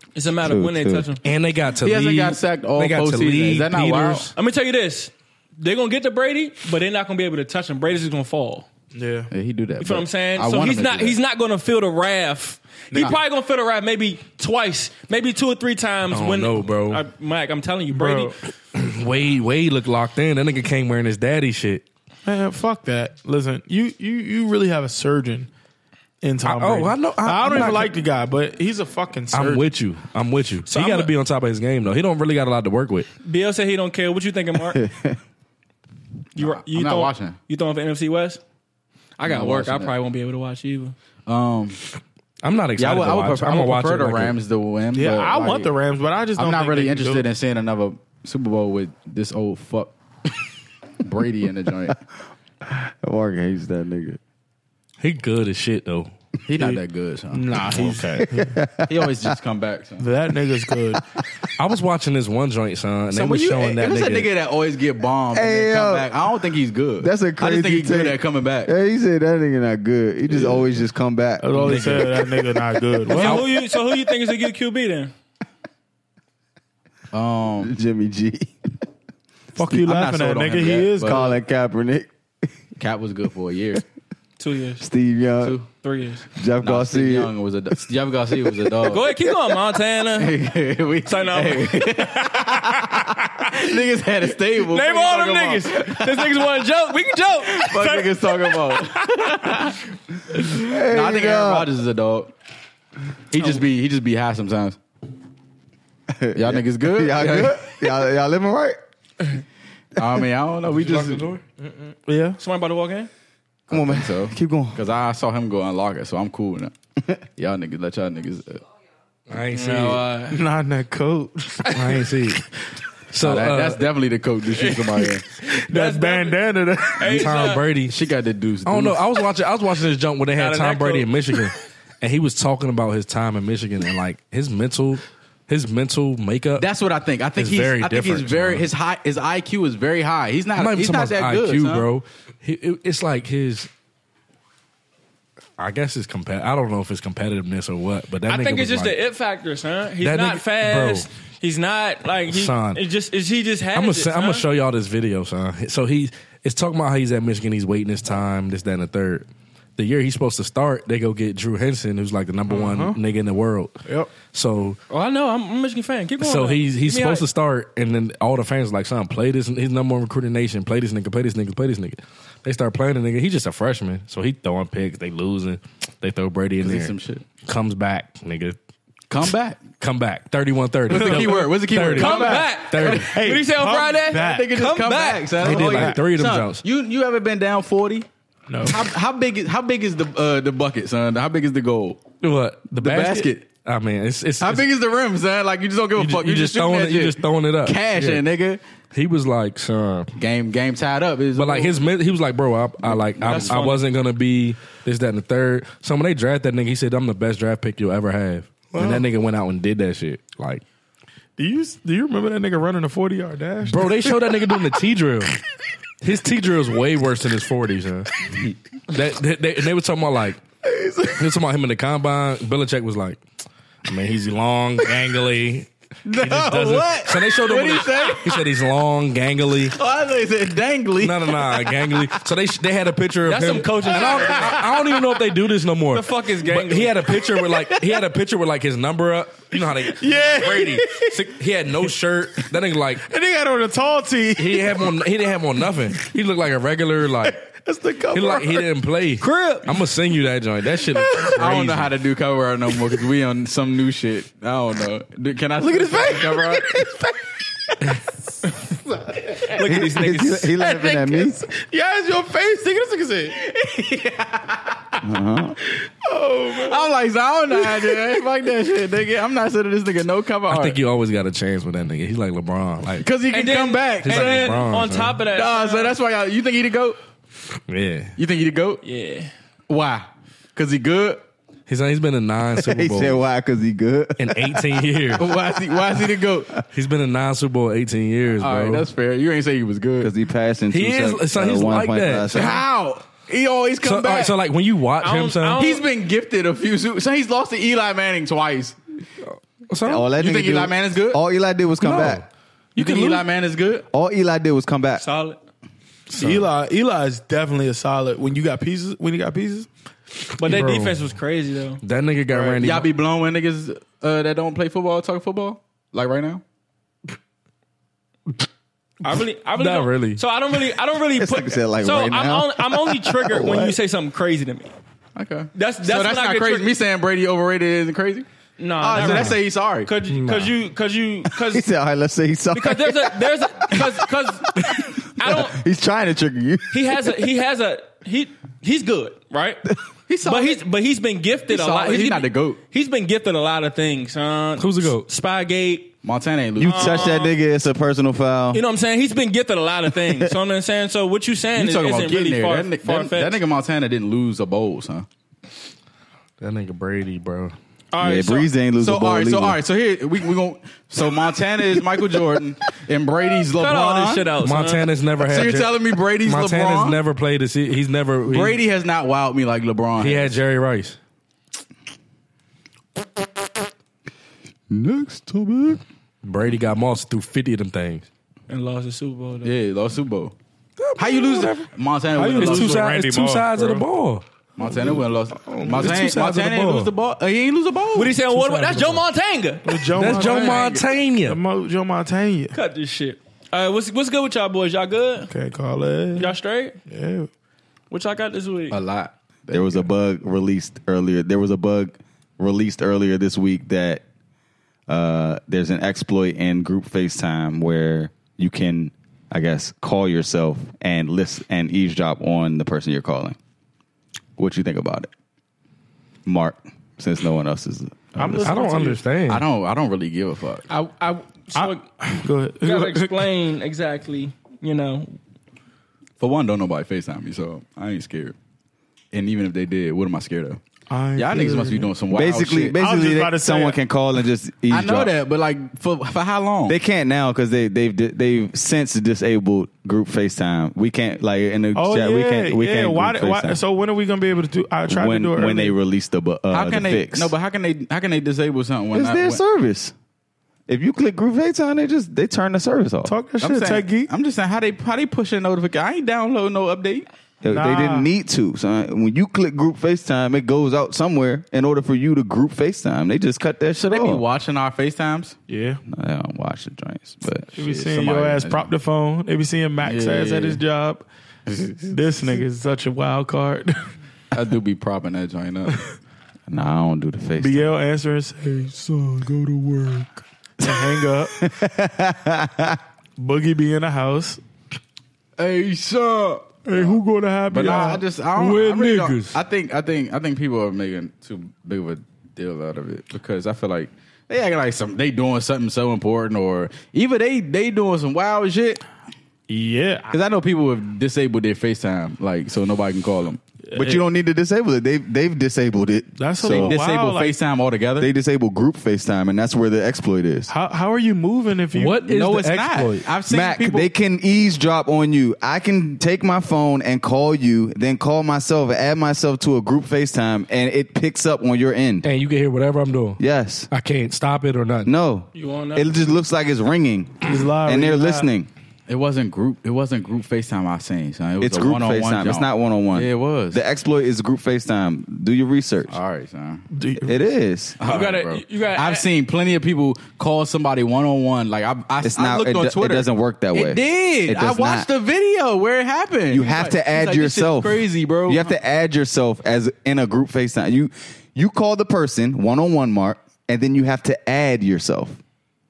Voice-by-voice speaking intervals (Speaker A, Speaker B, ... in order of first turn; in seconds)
Speaker A: 0.1-1.2, 4.4-8.7, 9.8-18.3, 30.7-31.1, 33.2-34.8, 36.4-38.4, 39.2-41.0, 73.1-75.1, 84.4-84.8, 85.8-86.2, 88.8-90.3, 91.1-92.8, 94.7-99.6, 112.4-113.1, 119.5-120.4, 125.7-126.4, 127.0-127.7, 130.3-131.1, 148.3-154.5, 164.9-167.3, 182.0-185.6, 203.2-203.8, 233.3-234.6, 235.9-237.1, 249.2-249.7, 259.5-260.6, 273.3-275.9, 278.8-279.3, 295.0-295.8, 305.0-305.4, 310.4-311.8, 319.0-324.7, 325.5-326.7, 328.6-331.7, 332.5-335.6, 336.7-339.6, 340.2-345.9, 346.6-347.3, 348.5-353.4, 357.9-358.5, 363.5-364.9, 378.5-379.5, 387.9-390.5, 392.5-395.3, 396.2-396.8, 397.9-398.8, 420.7-421.9, 422.6-425.2, 525.3-526.1, 537.8-539.1
Speaker B: 0.4-1.1, 34.7-35.2, 52.7-54.2, 58.2-59.3, 65.3-66.2, 67.0-72.3, 77.6-78.5, 81.0-82.1, 84.8-85.6, 86.4-87.3, 100.5-101.7, 106.1-108.8, 113.7-114.8, 259.6-261.4, 265.0-265.6, 282.6-285.2, 290.0-292.6, 299.9-302.2, 303.9-305.0, 321.1-323.8, 331.3-337.2, 346.6-348.6, 358.0-359.6, 374.7-375.8, 399.5-404.0, 404.9-413.4, 414.4-415.1, 416.3-418.6, 432.1-435.1, 436.7-443.6, 444.9-447.3, 448.9-449.9, 450.7-453.2, 457.4-464.2, 465.9-467.5, 476.5-477.7, 481.4-482.8, 503.8-506.8, 508.0-510.5, 513.3-522.1, 523.2-523.7, 524.9-528.5, 531.4-536.0, 537.0-537.8, 542.0-544.9, 546.3-555.2
Speaker C: 1.2-4.3, 16.1-17.0, 18.7-21.8, 26.4-27.9, 29.3-33.1, 42.4-44.4, 55.0-56.1, 57.7-58.2, 61.6-64.3, 73.1-73.5, 110.7-111.4, 119.3-120.1, 121.7-122.4, 123.1-123.8, 127.1-128.0, 128.7-136.7, 137.4-138.7, 140.6-143.7, 145.6-149.0, 150.0-151.1, 152.3-152.8, 153.7-164.8, 166.2-178.6, 179.8-183.1, 185.4-186.6, 192.2-194.7, 196.0-198.2, 198.9-200.1, 201.3-210.6, 213.7-215.3, 216.0-218.1, 218.9-220.4, 221.2-223.2, 223.9-229.8, 231.0-243.0, 244.4-247.4, 248.1-251.9, 270.5-273.1, 274.0-275.2, 277.7-278.1, 281.7-283.2, 284.2-285.3, 286.7-288.9, 290.7-292.6, 293.8-295.6, 299.3-300.1, 301.8-302.2, 302.8-303.2, 306.2-306.5, 310.4-311.0, 311.8-312.9, 319.6-320.2, 329.0-329.3, 330.1-330.5, 344.6-345.1, 356.4-357.6, 364.4-368.6, 370.0-371.0, 376.2-378.1, 380.8-381.7, 382.3-384.2, 385.7-386.9, 390.0-391.4, 418.4-419.4, 488.4-489.4, 511.8-513.1, 522.0-523.2, 523.7-524.9
Speaker D: 1.8-4.3, 9.3-11.2, 36.4-37.4, 39.2-39.9, 41.3-41.8, 42.8-45.7, 46.4-49.9, 51.0-52.0, 56.5-57.5, 58.9-60.1, 63.1-68.7, 70.3-70.7, 77.1-77.7, 79.7-81.2, 82.8-83.8, 86.6-89.2, 90.2-96.5, 97.5-99.8, 100.7-102.3, 103.3-104.8, 106.3-107.8, 110.0-111.3, 113.7-116.7, 117.4-118.6, 123.2-125.3, 127.9-129.0, 136.6-141.9, 176.6-177.3, 179.1-179.7, 180.9-183.1, 184.1-188.1, 188.6-192.1, 192.7-193.5, 194.4-198.6, 200.2-201.8, 202.8-203.6, 226.1-228.5, 229.8-232.1, 251.3-256.8, 263.8-264.5, 266.6-270.8, 273.0-274.6, 275.3-277.0, 278.2-278.8, 279.7-281.2, 285.2-286.5, 288.4-290.1, 292.3-294.4, 295.6-298.8, 300.1-301.2, 302.8-303.9, 312.6-316.4, 325.2-328.3, 328.8-329.9, 340.1-340.6, 341.5-342.6, 346.0-347.1, 351.6-355.1, 358.8-364.3, 365.2-367.0, 368.2-370.4, 379.4-380.4, 381.0-382.9, 384.6-388.1, 390.2-390.7, 398.7-399.9, 419.3-420.7, 426.2-428.4, 429.1-430.6, 431.2-432.8, 434.7-436.8, 446.5-449.4, 453.4-457.1, 463.8-465.4, 467.6-468.7, 469.8-470.6, 471.5-471.9, 474.3-475.8, 485.4-486.9, 487.5-498.8, 500.1-503.4, 506.4-508.1, 511.9-513.9, 528.9-533.6, 535.9-536.7, 537.8-548.5
Speaker E: 8.9-9.3, 17.9-18.4, 22.3-25.5, 26.2-29.7, 44.9-47.3, 57.3-58.5, 60.0-61.0, 71.4-73.5, 79.5-81.4, 112.1-112.4, 120.3-122.0, 125.4-127.3, 162.5-163.0, 163.9-164.1, 180.9-184.5, 185.4-186.0, 188.5-188.8, 208.7-209.1, 211.4-214.7, 220.6-221.3, 239.9-241.2, 243.1-245.0, 247.3-248.7, 250.9-251.4, 255.6-257.2, 257.7-259.8, 260.6-263.5, 265.8-266.9, 267.5-268.2, 306.1-309.7, 312.3-312.6, 382.2-383.9, 384.7-384.9, 385.4-386.0, 388.3-389.0, 389.6-392.6, 395.3-396.3, 396.9-397.3, 418.2-419.1, 421.6-423.3, 430.9-431.9, 432.8-433.8, 441.7-445.8, 453.1-454.1, 457.5-458.1, 465.5-465.8, 467.6-471.1, 471.9-473.9, 477.4-481.4, 483.2-484.4, 486.7-488.0, 499.5-500.1, 503.7-504.0, 506.2-507.4, 510.5-512.0, 527.2-528.3, 536.7-537.2